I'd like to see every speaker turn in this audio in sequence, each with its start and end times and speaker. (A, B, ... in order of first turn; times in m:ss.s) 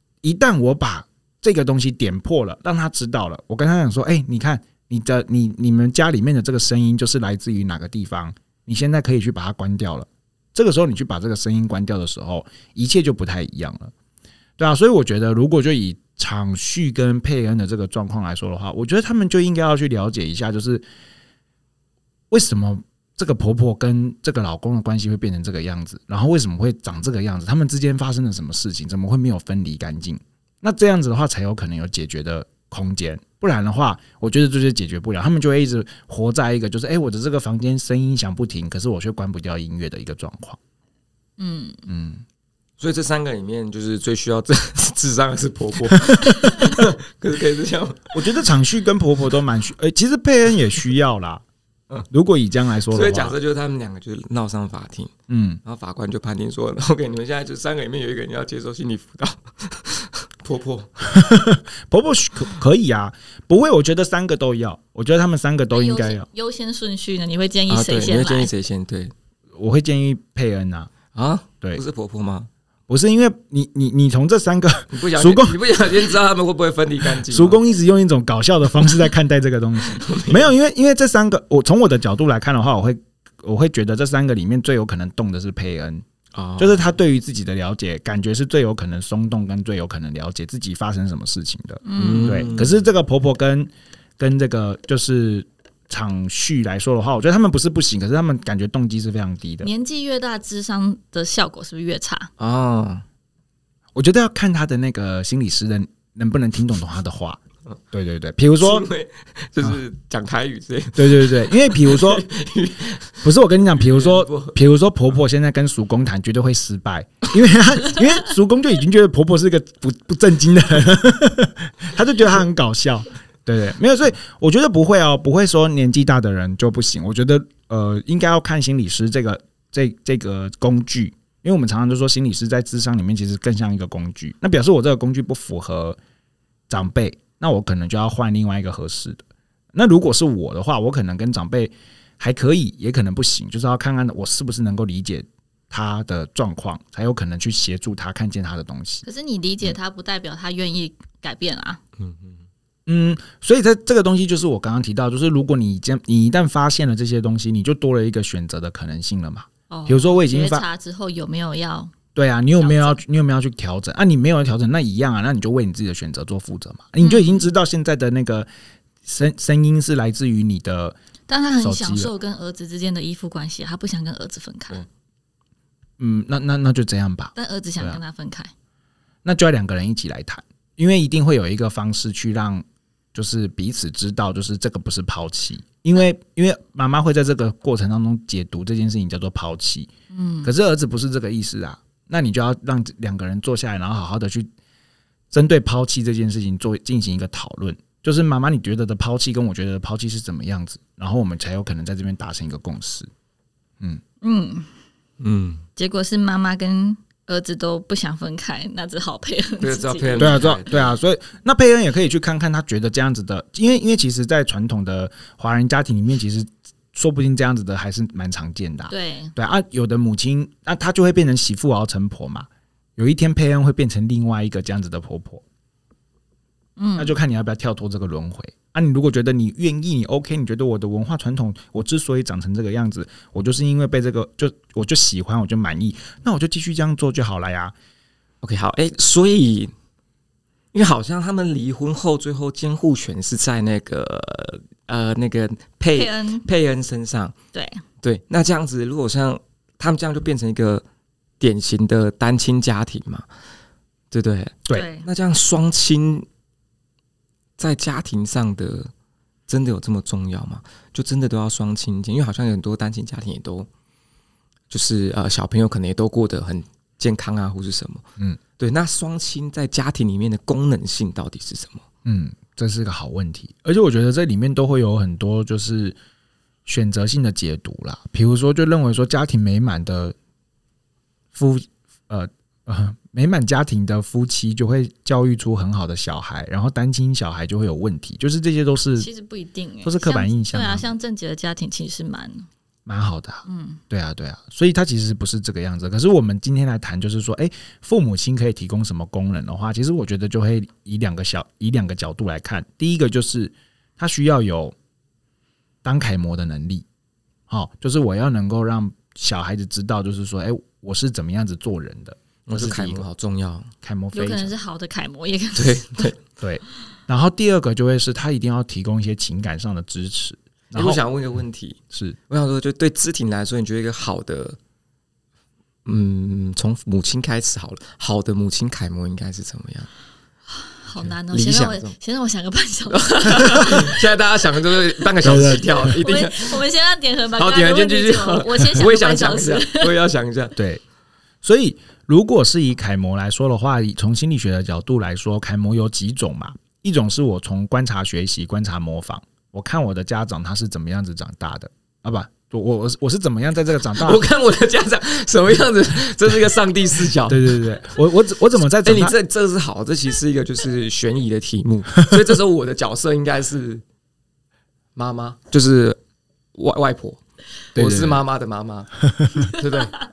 0:00.2-0:13.9 A
0:14.6-0:20.8 A
0:22.3-0:40.6 A
0:41.4-0:41.8 B
0:41.9-0:42.2 A
0:42.8-0:48.3 C
0:46.1-0:46.7 A
0:48.1-0:51.4 A
0:52.1-0:53.4 A
0:52.9-0:55.1 C
0:55.3-0:55.6 A
0:55.6-1:01.2 C
1:01.1-1:06.2 A
1:05.7-1:08.5 B
1:07.7-1:09.1 C
1:09.5-1:10.9 A
1:11.1-1:12.5 C
1:12.9-1:15.6 A
1:14.9-1:17.6 C
1:17.2-1:26.0 A
1:19.9-1:20.5 C
1:26.3-1:26.9 C
1:26.6-1:39.7 A
1:31.8-1:32.5 B
1:32.0-1:32.8 C
1:39.6-1:42.3 B
1:42.4-1:43.0 C
1:43.9-1:47.4 A
1:47.9-1:48.9 A
1:48.6-1:54.6 C
1:51.0-1:52.2 A
1:53.2-2:16.0 A
2:16.7-2:19.2 A
2:19.7-2:29.0 A
2:29.0-2:31.8 B
2:32.0-2:32.4 C
2:32.9-2:40.6 A
2:39.7-2:41.9 B
2:42.1-2:48.5 A
2:42.6-2:43.0 B
2:47.0-2:47.4 B
2:49.0-2:51.0 A
2:51.3-2:54.8 B
2:51.6-2:52.1 A
2:56.0-2:58.0 A
2:57.3-2:58.5 B
2:59.2-3:09.9 A
3:10.1-3:10.5 B
3:10.4-3:14.5 A
3:15.3-3:23.1 A
3:24.2-3:24.7 B
3:25.2-3:25.6 C
3:25.8-3:30.6 B
3:29.6-3:30.9 C
3:30.2-3:45.4 A
3:38.9-3:39.3 B
3:46.8-3:47.2 B
3:47.0-3:57.7 A
3:58.4-3:59.7 C
4:00.7-4:07.3 C
4:05.9-4:06.4 B
4:07.5-4:07.8 B
4:08.0-4:10.8 C
4:11.4-4:13.2 C
4:14.1-4:16.2 C
4:14.7-4:15.1 B
4:17.6-4:18.9 C
4:19.5-4:23.7 C
4:24.7-4:28.0 C
4:28.6-4:31.8 C
4:32.0-4:36.0 A
4:36.6-4:40.1 A
4:41.3-4:49.1 A
4:49.0-4:52.5 B
4:49.8-4:50.8 A
4:52.8-5:04.7 A
4:53.4-4:53.8 B
5:05.8-5:06.8 A
5:07.5-5:13.0 A
5:12.5-5:13.7 C
5:13.8-5:14.5 A
5:14.1-5:16.1 B
5:15.6-5:16.2 C
5:16.4-5:21.0 A
5:20.7-5:24.6 C
5:21.9-5:22.2 A
5:25.8-5:29.9 C
5:30.5-5:34.0 B
5:31.3-5:31.9 C
5:32.9-5:36.6 C
5:35.2-5:36.0 A
5:35.8-5:39.9 B
5:37.4-5:40.5 C
5:40.6-5:40.8 A
5:41.4-5:54.2 A
5:54.0-5:57.6 C
5:57.3-5:59.2 A
5:58.8-6:03.8 C
6:05.0-6:06.0 C
6:06.5-6:07.2 C
6:07.7-6:08.2 A
6:07.7-6:09.9 C
6:09.0-6:09.5 A